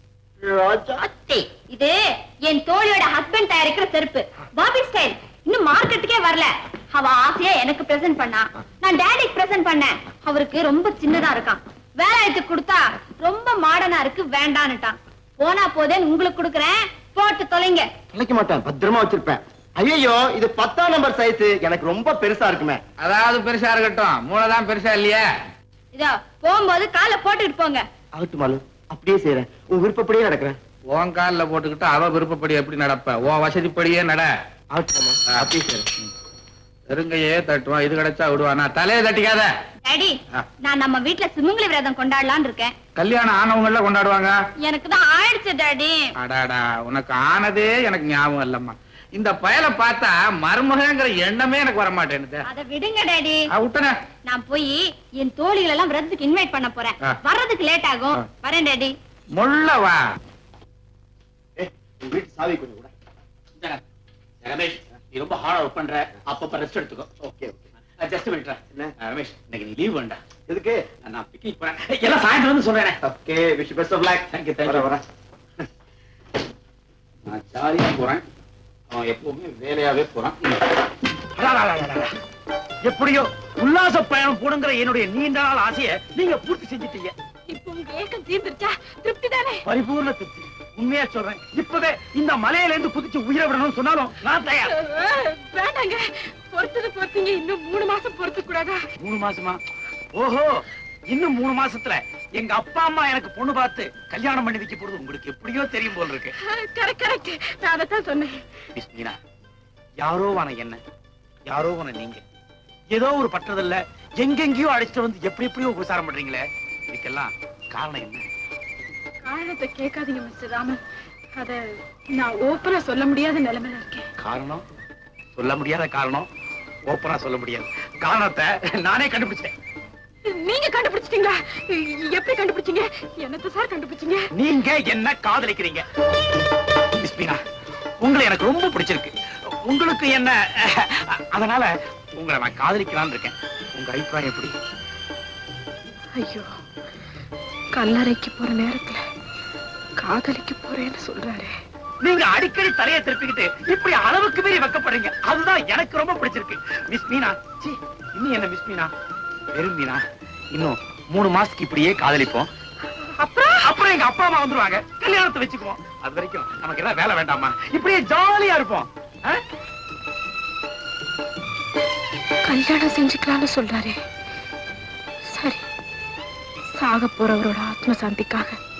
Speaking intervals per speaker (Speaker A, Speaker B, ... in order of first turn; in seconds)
Speaker A: 0.4-1.5, 18.1-22.8, 28.2-30.6, 34.7-35.8, 61.6-62.9, 67.2-67.6, 70.5-70.8, 73.0-75.0
Speaker B: 1.7-17.9, 25.9-27.8, 39.8-42.7, 44.6-46.1, 52.5-53.4, 54.2-58.9
Speaker C: 23.0-25.2, 30.9-34.3, 35.3-35.8, 36.9-39.5, 43.0-44.3, 46.2-52.4, 53.5-54.0, 59.4-60.0
Speaker D: 64.4-67.1, 68.0-70.2, 71.0-73.0, 74.3-75.0, 77.2-78.2, 78.9-80.6, 81.3-82.1, 82.8-87.1, 89.6-94.7, 99.0-99.6, 100.1-106.3, 108.8-109.2, 110.0-110.8, 111.5-112.2, 112.9-118.2, 124.2-124.6, 125.3-126.3, 126.9-129.5, 134.3-135.8, 137.0-137.4, 138.0-139.1, 139.7-144.5, 152.0-158.9, 159.5-160.0, 160.5-162.5, 163.6-169.4
Speaker E: 87.5-89.6, 94.7-98.8, 106.4-108.4, 119.2-120.8, 121.3-124.1, 130.2-134.3, 146.2-146.5, 147.8-149.0, 150.0-151.6, 163.2-163.7, 172.5-174.0, 175.3-175.6, 176.8-178.6